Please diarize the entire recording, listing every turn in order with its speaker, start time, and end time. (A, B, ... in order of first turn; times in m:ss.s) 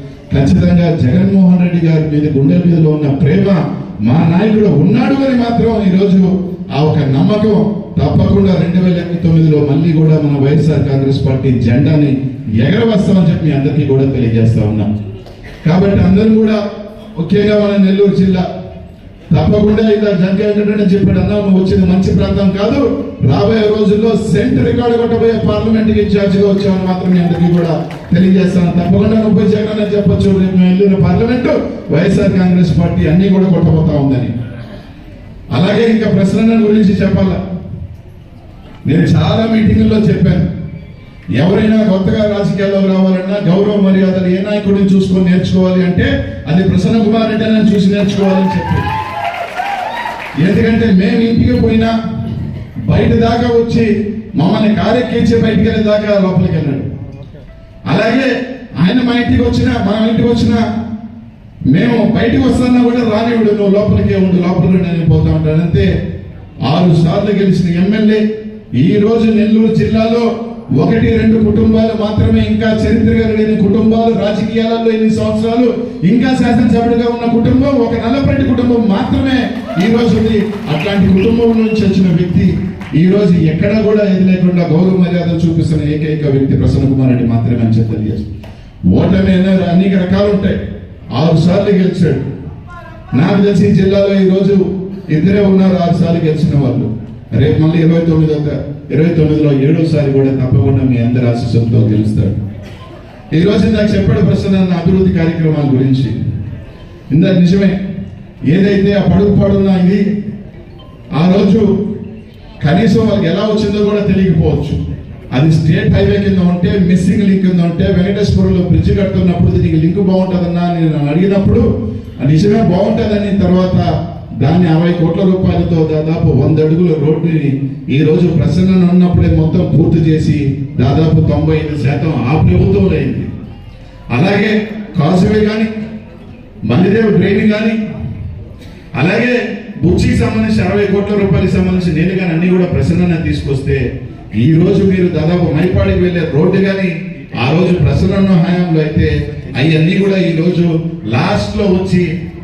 0:00.3-0:14.9 A
0:15.6-0:16.6 A
0:17.2-0:18.4 A
0:19.3-0:34.3 A
0:35.5-0:37.4 A
0:38.8-0:40.4 A
0:41.4-0:48.9 A
0:50.4-0:51.9 A
0:52.9-0:56.9 A
0:57.9-1:00.6 A
1:01.7-1:05.9 A
1:06.6-1:08.2 A
1:08.8-1:28.3 A
1:28.9-1:30.6 A
1:31.1-1:32.2 A
1:33.1-1:42.4 A
1:43.3-1:46.1 A
1:47.1-1:47.8 A
1:48.5-1:50.0 A
1:51.2-1:51.7 A
1:52.6-1:54.8 A
1:55.3-2:01.6 A
2:02.2-2:03.8 A
2:04.4-2:13.3 A
2:14.1-2:15.7 A
2:16.7-2:17.8 A
2:19.0-2:23.8 A
2:24.4-2:32.1 A